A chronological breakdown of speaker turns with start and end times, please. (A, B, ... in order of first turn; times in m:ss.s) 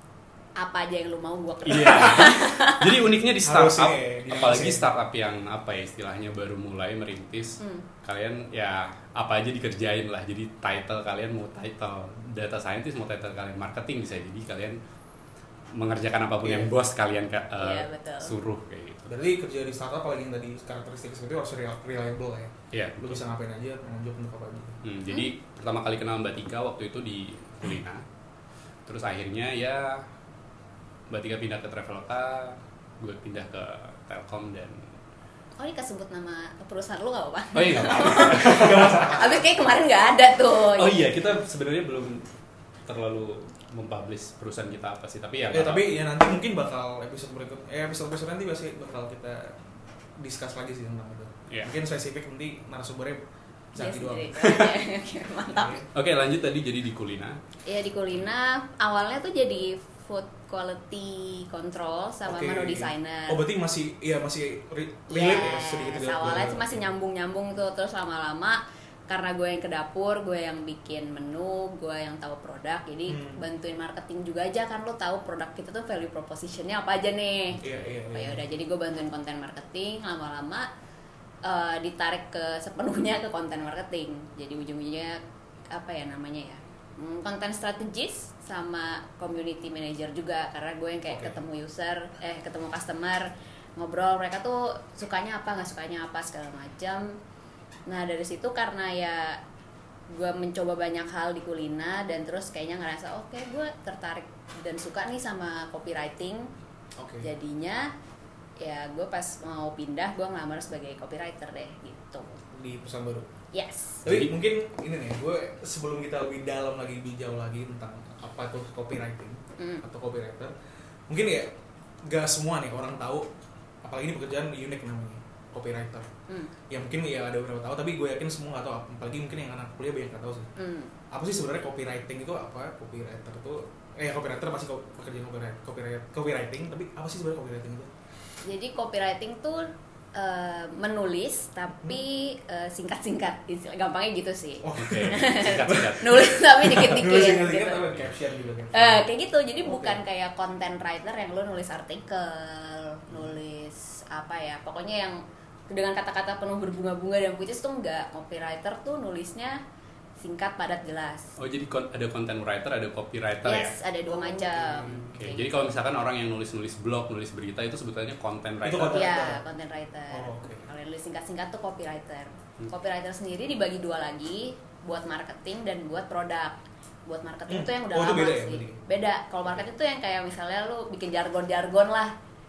0:00.6-0:02.9 A
0:01.6-0:14.8 B
0:03.4-0:04.9 C
0:07.6-0:07.9 A
0:15.8-0:19.1 B
0:16.4-0:16.7 C
0:17.6-0:18.3 A
0:19.0-0:24.8 C
0:22.7-0:23.2 B
0:24.8-0:28.0 B
0:28.9-0:30.1 B
0:31.1-0:34.9 B
0:35.6-0:41.0 A
0:37.5-0:39.1 B
0:38.0-0:39.6 C
0:40.8-0:42.3 B
0:42.9-0:46.0 B
0:45.5-0:54.5 C
0:53.8-0:55.9 A
0:54.4-0:54.7 B
0:55.5-0:55.9 C
0:55.9-0:57.4 B
0:57.7-1:03.4 A
1:02.2-1:06.9 C
1:05.1-1:17.6 A
1:13.1-1:13.4 C
1:17.6-1:17.9 B
1:17.6-1:18.4 C
1:18.1-1:20.7 A
1:21.4-1:37.2 A
1:31.1-1:31.4 C
1:37.9-1:39.4 A
1:40.1-1:46.5 A
1:47.0-1:47.3 C
1:47.2-1:47.9 A
1:48.6-1:52.4 A
1:52.5-1:53.3 C
1:53.5-1:54.0 A
1:54.0-1:54.3 B
1:54.0-2:00.5 C
1:59.6-1:59.8 A
2:01.1-2:03.3 C
2:03.8-2:06.1 C
2:06.7-2:10.5 C
2:10.6-2:10.9 A
2:11.1-2:17.9 C
2:18.4-2:27.9 A
2:24.6-2:29.1 C
2:24.8-2:26.3 B
2:28.7-2:39.6 A
2:29.6-2:30.0 C
2:33.1-2:33.4 C
2:40.2-2:41.4 A
2:41.4-2:43.8 B
2:43.4-2:45.5 A
2:44.0-2:45.2 C
2:45.1-2:49.1 B
2:48.6-2:49.4 C
2:48.9-3:02.2 A
2:50.1-2:50.7 C
2:57.5-2:58.8 C